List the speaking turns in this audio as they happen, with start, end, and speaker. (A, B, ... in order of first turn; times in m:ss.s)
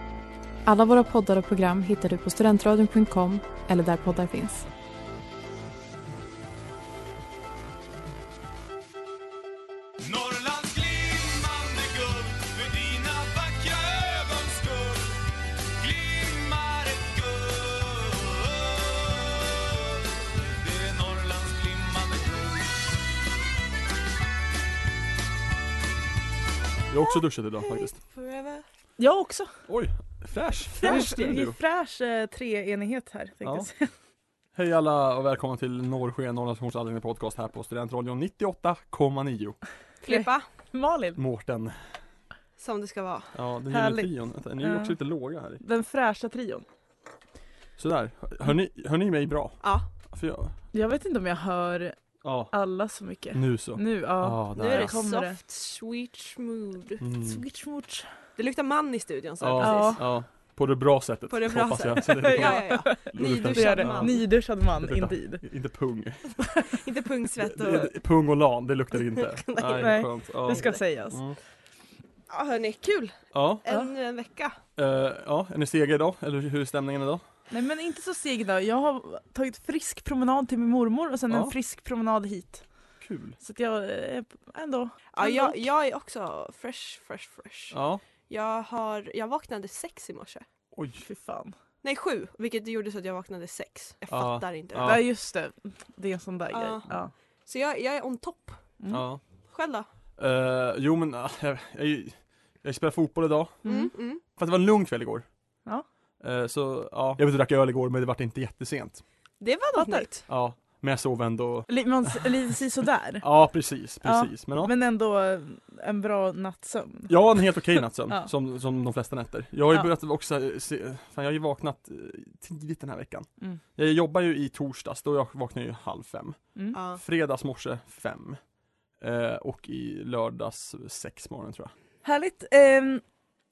0:00.6-0:04.7 A
0:10.0-0:15.2 B
0:15.8-0:19.6 B
0:20.6-0:22.7 B
0:26.9-0:28.0 C
0:27.7-0:28.6 D
0:29.0-0:29.5 E
0:29.7-0:31.6 C
0:30.8-0:31.4 D
0:30.8-0:33.9 E
0:33.4-0:33.7 C
0:34.5-0:39.6 C
0:40.0-0:40.5 D
0:40.0-0:41.2 E
0:41.2-0:41.8 C
0:42.6-0:43.3 D
0:43.3-0:45.6 C
0:43.7-0:45.0 E
0:45.6-0:46.6 E
0:47.8-0:50.5 C
0:49.6-0:49.9 D
0:50.7-0:55.4 E
0:52.2-0:55.0 C
0:54.5-0:57.0 D
0:57.0-0:57.4 C
0:57.2-0:58.1 E
0:58.4-1:00.0 D
0:59.4-1:06.4 C
0:59.6-1:00.0 E
1:01.3-1:04.2 D
1:02.0-1:05.4 E
1:06.7-1:07.9 D
1:07.4-1:11.4 C
1:08.9-1:10.8 D
1:09.8-1:11.2 E
1:12.3-1:14.6 D
1:13.3-1:13.6 C
1:14.8-1:17.2 C
1:17.5-1:22.7 E
1:23.0-1:23.4 C
1:23.4-1:25.6 E
1:25.1-1:30.4 D
1:27.7-1:28.0 C
1:30.7-1:31.0 C
1:31.0-1:31.5 E
1:31.8-1:34.9 D
1:34.1-1:35.0 C
1:34.8-1:37.1 E
1:36.5-1:36.9 D
1:37.4-1:38.7 D
1:38.8-1:39.0 E
1:38.9-1:39.2 C
1:39.5-1:39.8 D
1:40.2-1:43.6 C
1:43.6-1:43.9 E
1:43.6-1:44.2 D
1:44.2-1:45.3 C
1:46.2-1:49.0 C
1:49.4-1:50.3 D
1:49.7-1:50.1 E
1:50.3-1:51.9 C
1:51.7-1:53.2 E
1:53.2-1:54.7 C
1:54.0-1:58.3 E
1:57.1-2:08.4 C
2:06.7-2:07.0 D
2:09.0-2:11.7 C
2:12.0-2:13.0 E